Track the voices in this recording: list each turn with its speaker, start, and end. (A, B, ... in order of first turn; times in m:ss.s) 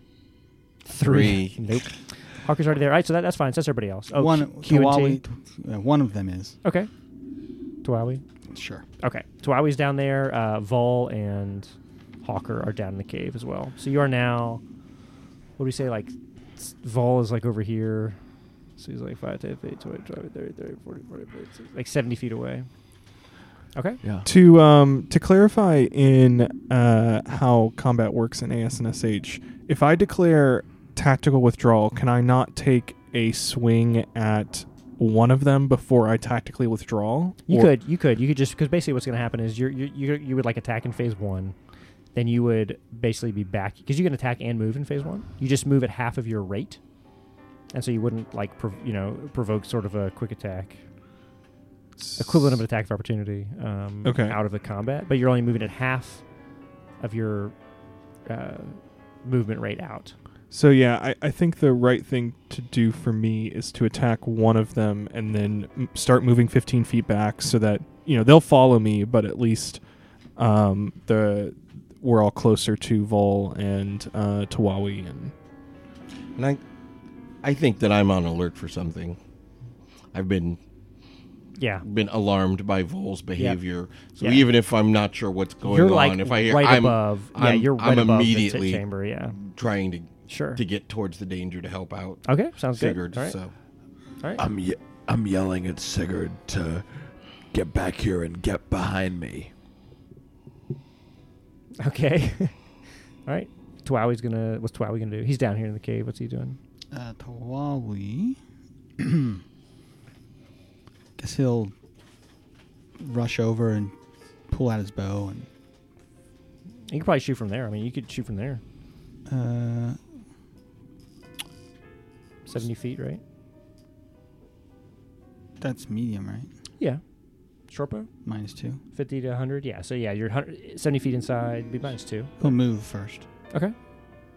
0:00.8-0:05.2 A
0:01.0-0:01.6 B
0:04.1-0:06.6 C
0:06.6-0:06.9 A
0:07.8-0:08.2 A
0:08.5-0:08.8 C
0:09.0-0:11.7 A
0:12.2-0:14.6 A
0:15.6-0:18.2 A
0:18.8-0:22.7 A
0:23.7-0:24.0 A
0:24.0-0:24.3 D
0:24.2-0:37.7 E
0:37.4-0:41.6 A
0:42.1-0:46.8 A
0:47.7-0:50.8 A
0:52.0-0:52.6 E
0:52.2-0:56.2 A
0:54.0-0:54.4 E
0:57.0-0:57.5 A
0:58.2-1:00.1 A
1:00.5-1:09.8 E
1:10.4-1:15.3 E
1:16.4-1:16.6 B
1:17.4-1:19.2 B
1:20.1-1:20.6 B
1:21.6-1:21.8 A
1:21.8-1:33.5 B
1:24.2-1:24.5 A
1:25.6-1:29.4 A
1:30.3-1:30.6 A
1:32.2-1:33.4 A
1:34.4-1:39.5 D
1:41.8-1:42.6 A
1:43.2-1:46.6 A
1:46.9-1:48.4 C
1:49.0-1:49.4 C
1:51.2-1:51.7 C
1:53.0-1:53.9 C
1:54.5-1:55.5 C
1:56.9-1:58.6 A
1:59.3-2:00.0 C
2:02.5-2:03.2 A
2:05.6-2:06.5 C
2:07.7-2:08.1 A
2:08.2-2:08.8 C
2:08.9-2:12.6 A
2:12.4-2:13.2 C